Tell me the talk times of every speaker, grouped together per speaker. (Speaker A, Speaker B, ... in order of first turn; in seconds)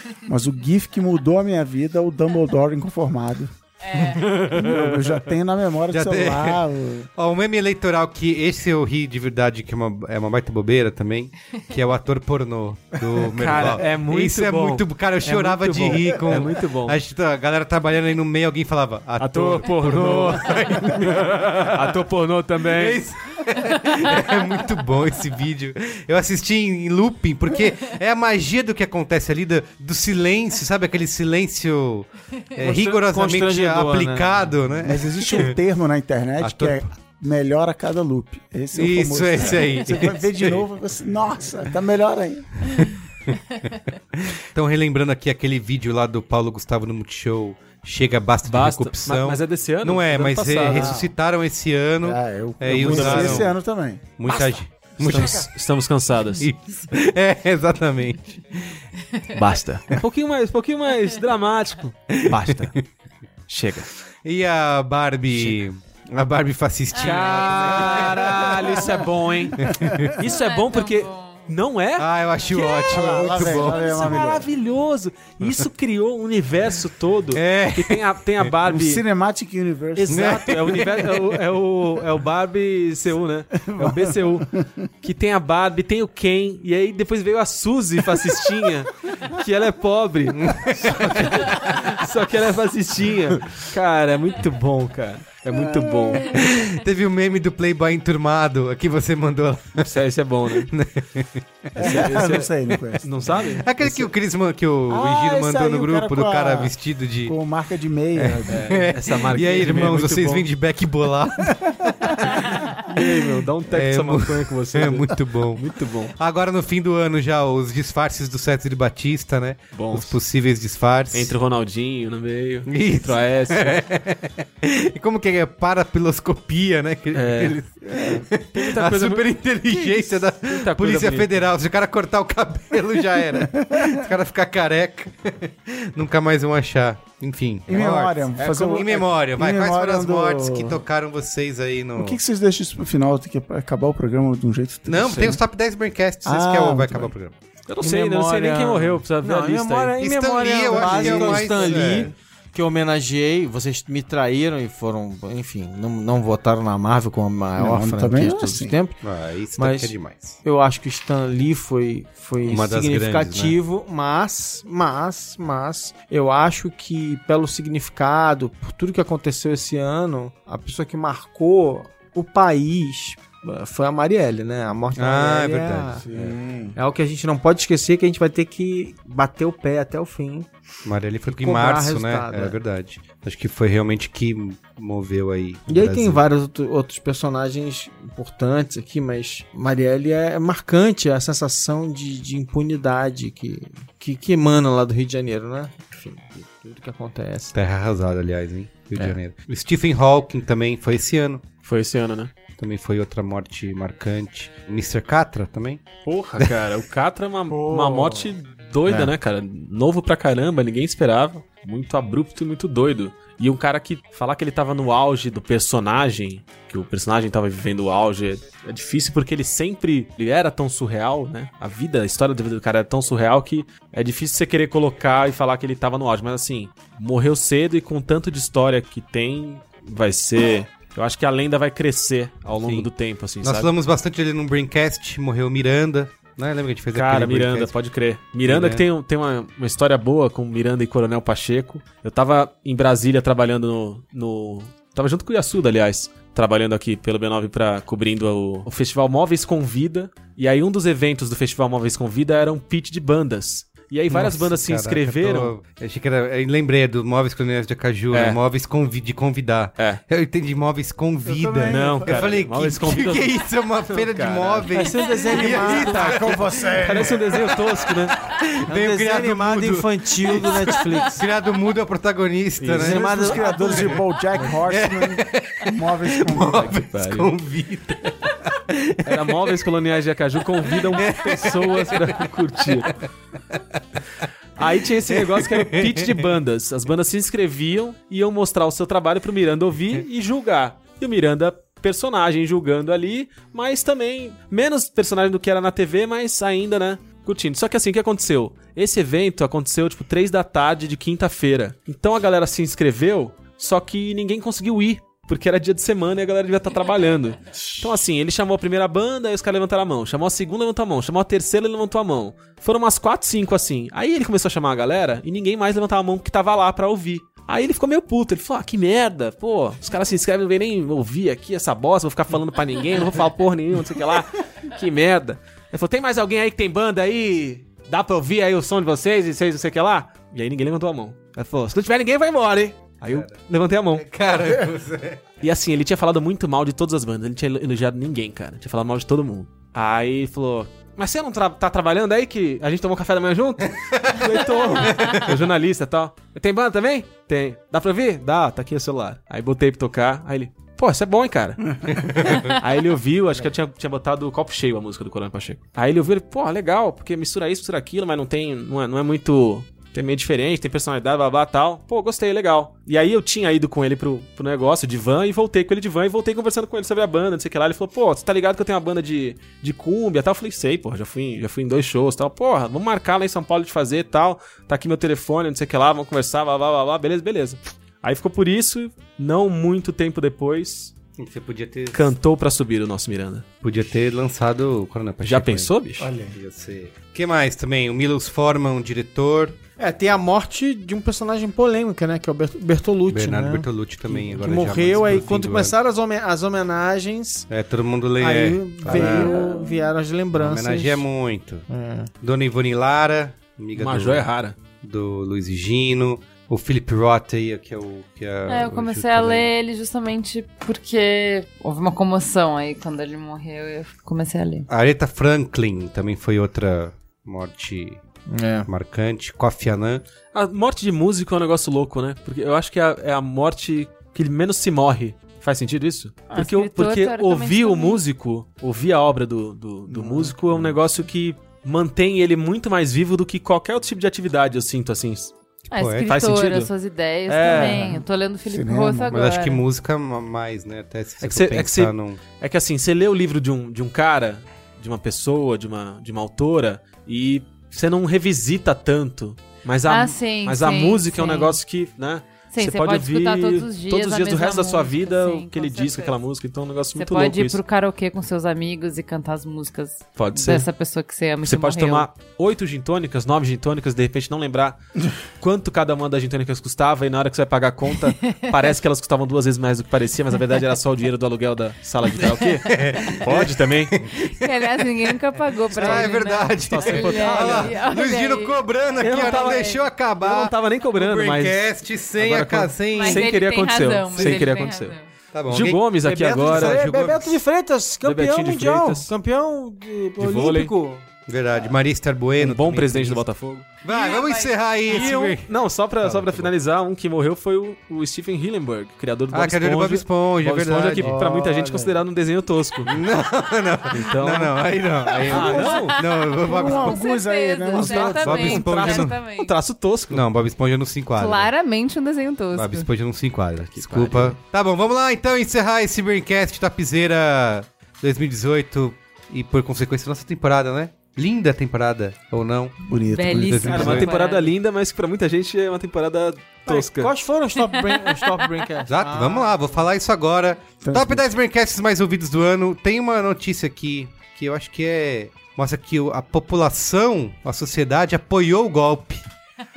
Speaker A: 0.2-3.5, 4.2-7.1, 34.8-42.7, 50.6-51.1, 52.0-54.6, 55.1-55.3, 68.3-68.9, 69.6-70.1, 72.9-74.5, 78.7-80.6, 83.6-84.7, 95.5-96.1, 101.8-104.1, 104.9-106.7, 107.2-108.8, 127.9-128.2, 133.4-134.0, 137.7-140.8, 141.9-145.4, 146.2-147.1, 150.7-151.9, 157.6-158.8, 176.0-176.8, 207.5-208.3, 261.2-262.3, 265.4-267.4, 272.9-276.7, 386.0-386.4, 398.8-399.6, 429.9-430.4, 437.5-439.2, 500.9-502.0, 505.3-505.9, 506.4-508.4, 522.8-524.1, 530.8-531.3
Speaker B: 3.8-4.2, 67.0-67.8, 70.3-71.5, 399.4-399.9, 408.5-414.7, 426.3-428.0, 435.7-439.6, 449.9-451.6, 452.5-456.2, 456.9-462.1, 474.1-479.8, 482.9-485.0, 493.9-495.1, 505.4-509.5, 511.1-512.9, 523.1-524.5, 527.6-528.0
Speaker C: 5.9-6.6, 7.2-22.0, 22.6-35.5, 36.4-36.9, 38.7-40.6, 42.7-43.4, 44.1-53.5, 54.2-55.5, 56.4-58.8, 62.1-62.8, 64.2-68.9, 69.6-70.2, 72.0-74.2, 75.4-75.7, 77.3-78.5, 80.1-81.2, 90.4-91.9, 96.3-99.9, 100.5-102.1, 103.6-107.3, 108.2-113.0, 113.7-121.3, 122.7-142.2, 144.8-147.3, 150.0-152.1, 159.0-160.4, 162.4-163.6, 174.9-176.1, 180.8-186.2, 197.5-201.5, 202.6-205.8, 232.6-232.9, 233.4-237.7, 238.4-238.8, 254.1-279.5, 280.9-282.2, 285.1-286.2, 333.0-335.2, 343.7-345.2, 351.9-352.5, 381.2-382.1, 383.6-385.7, 386.2-389.6, 393.1-395.8, 397.5-399.5, 400.3-401.6, 402.2-409.5, 414.7-418.0, 418.6-420.0, 435.7-436.1, 439.1-442.2, 472.7-474.9, 475.7-483.3, 484.2-484.5, 485.3-487.4, 491.3-493.2, 493.8-495.5, 496.0-496.5, 499.3-501.1, 502.8-507.0, 507.9-509.2, 510.1-511.5, 512.5-522.8, 523.3-524.1, 528.9-539.2
Speaker D: 13.3-17.0, 19.2-23.1, 48.4-51.0, 52.8-53.5, 55.0-56.5, 59.3-62.7, 63.5-63.9, 65.3-65.6, 67.0-79.0, 80.0-84.5, 85.0-96.4, 99.8-100.7, 101.8-102.5, 103.0-103.8, 108.5-110.5, 112.6-116.1, 119.7-120.2, 121.1-123.8, 127.1-127.6, 128.5-131.4, 138.4-138.8, 147.7-150.0, 201.6-202.3, 206.0-233.7, 236.9-255.5, 258.1-258.4, 261.6-263.4, 263.9-264.8, 266.1-268.2, 272.6-274.0, 276.6-277.3, 279.0-283.0, 284.6-334.1, 335.4-380.9, 381.9-383.4, 385.2-386.1, 403.8-404.6, 420.3-435.3, 436.0-436.7, 437.3-438.0, 441.2-457.6, 460.1-460.7, 461.4-464.8, 465.4-473.9, 475.8-477.8, 479.0-484.9, 485.5-486.8, 488.0-489.1, 490.2-490.7, 492.4-493.7, 494.9-503.0, 503.9-504.6, 505.2-506.0, 507.8-510.2, 513.7-514.4, 523.6-527.1
Speaker E: 32.6-34.5, 147.8-159.0, 159.6-180.5, 181.3-182.6, 185.7-197.5, 208.9-209.1, 264.6-266.4, 268.7-271.2, 272.7-273.9, 389.8-397.4, 398.2-401.0, 401.7-402.1, 418.3-418.7, 479.0-479.6, 486.0-491.0, 526.6-529.6